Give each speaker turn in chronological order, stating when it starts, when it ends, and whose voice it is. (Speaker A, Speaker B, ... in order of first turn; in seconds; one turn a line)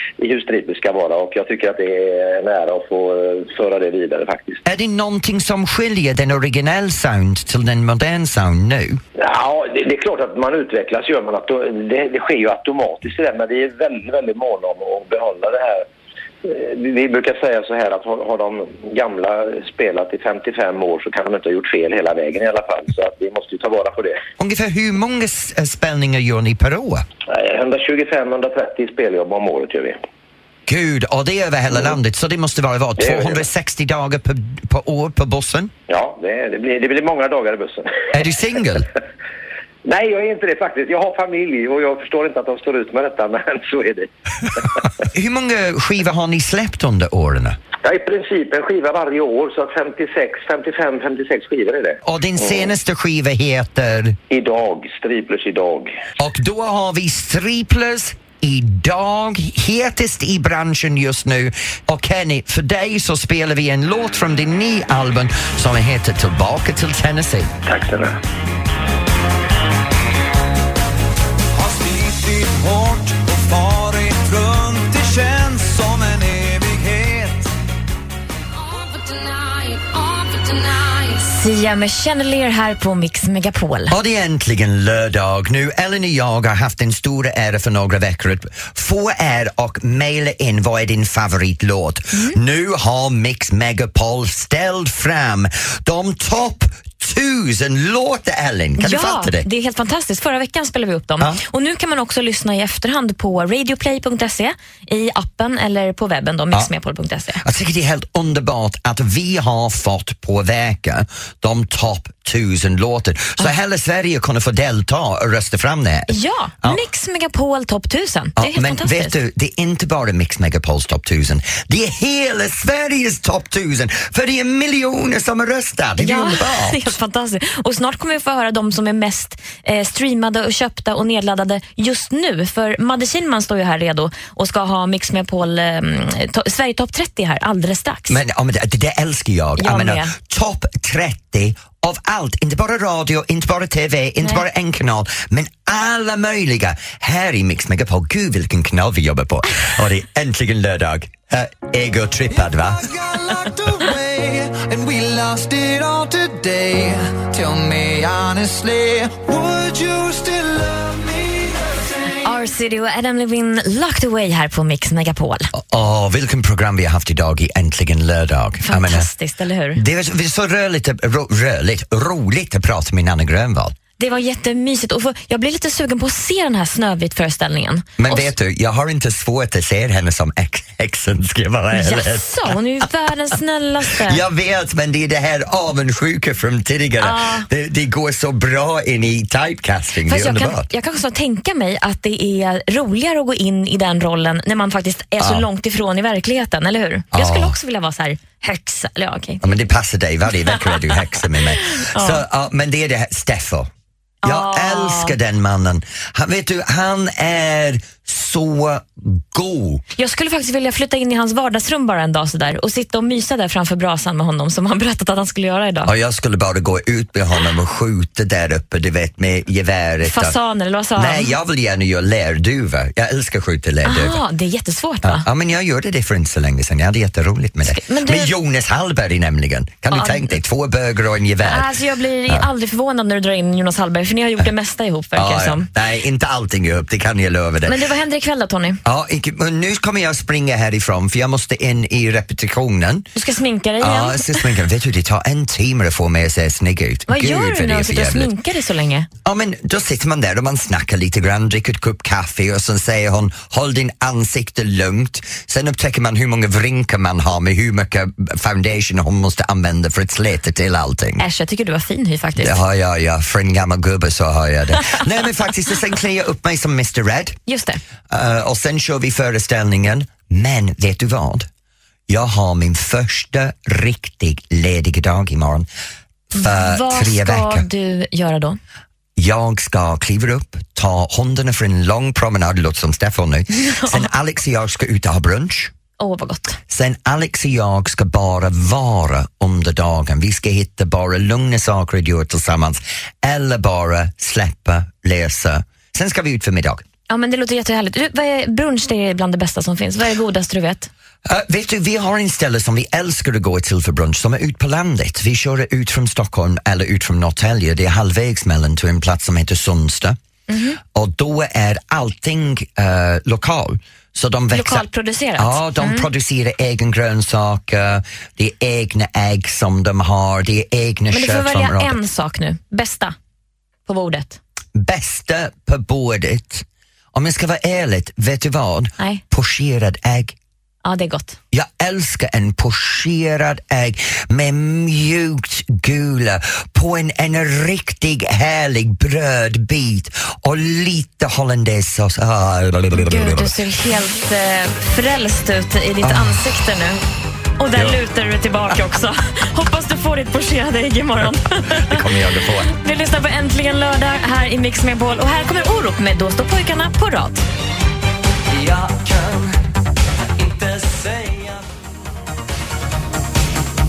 Speaker A: 0.2-4.6
Speaker B: 4.7-9.0
Speaker A: 9.2-15.9
Speaker A: 16.4-24.2
Speaker B: 24.4-27.1
Speaker A: 27.3-30.0
Speaker B: 30.7-35.7
Speaker A: 33.0-33.5
Speaker A: 35.9-38.1
Speaker B: 38.1-38.9
Speaker A: 39.9-44.8
Speaker B: 45.1-47.6
Speaker A: 47.8-52.0
Speaker B: 52.0-54.2
Speaker A: 54.3-55.9
Speaker B: 56.2-67.5
Speaker A: 67.7-68.2
Speaker C: 71.5-77.5
Speaker D: 81.1-83.9
Speaker B: 83.9-99.5
Speaker D: 92.1-92.4
Speaker D: 98.8-107.4
Speaker B: 107.4-116.8
Speaker D: 116.1-119.2
Speaker B: 118.4-127.0
Speaker D: 126.0-138.2
Speaker B: 138.1-153.0
Speaker D: 139.6-140.1
Speaker C: 152.4-162.2
Speaker D: 162.2-165.5
Speaker B: 165.5-169.1
Speaker D: 168.7-169.8
Speaker B: 169.8-173.8
Speaker D: 174.0-178.3
Speaker B: 178.0-182.3
Speaker D: 181.7-184.2
Speaker B: 183.9-190.7
Speaker D: 187.0-187.5
Speaker D: 190.1-199.4
Speaker B: 195.2-195.5
Speaker B: 197.1-197.6
Speaker B: 199.4-203.7
Speaker D: 201.6-202.2
Speaker D: 204.2-205.2
Speaker B: 204.2-209.8
Speaker D: 210.0-215.9
Speaker B: 215.9-220.3
Speaker D: 220.0-221.3
Speaker B: 221.0-224.2
Speaker D: 223.8-225.3
Speaker B: 225.0-231.7
Speaker D: 227.7-228.3
Speaker D: 229.9-230.3
Speaker D: 231.4-235.7
Speaker B: 235.2-237.8
Speaker D: 237.7-238.8
Speaker B: 238.8-243.1
Speaker D: 243.2-244.5
Speaker B: 243.8-248.3
Speaker D: 247.1-249.1
Speaker B: 249.2-261.2
Speaker D: 261.2-262.6
Speaker B: 262.4-267.4
Speaker D: 267.5-267.8
Speaker B: 268.1-271.5
Speaker B: 272.1-275.7
Speaker B: 276.4-277.7
Speaker D: 276.4-278.6
Speaker B: 279.2-285.7
Speaker D: 283.5-284.1
Speaker D: 286.0-286.6
Speaker B: 286.7-296.8
Speaker D: 297.1-300.9
Speaker B: 301.2-310.2
Speaker D: 310.5-310.8
Speaker B: 310.9-314.9
Speaker D: 314.5-316.1
Speaker B: 315.4-322.0
Speaker D: 321.1-323.1
Speaker D: 323.9-324.4
Speaker B: 324.8-330.4
Speaker D: 330.8-331.4
Speaker B: 331.5-343.5
Speaker D: 342.9-347.0
Speaker B: 346.0-346.4
Speaker D: 347.6-352.1
Speaker B: 351.7-352.7
Speaker D: 352.6-357.4
Speaker C: 358.5-359.6
Speaker C: 360.4-361.7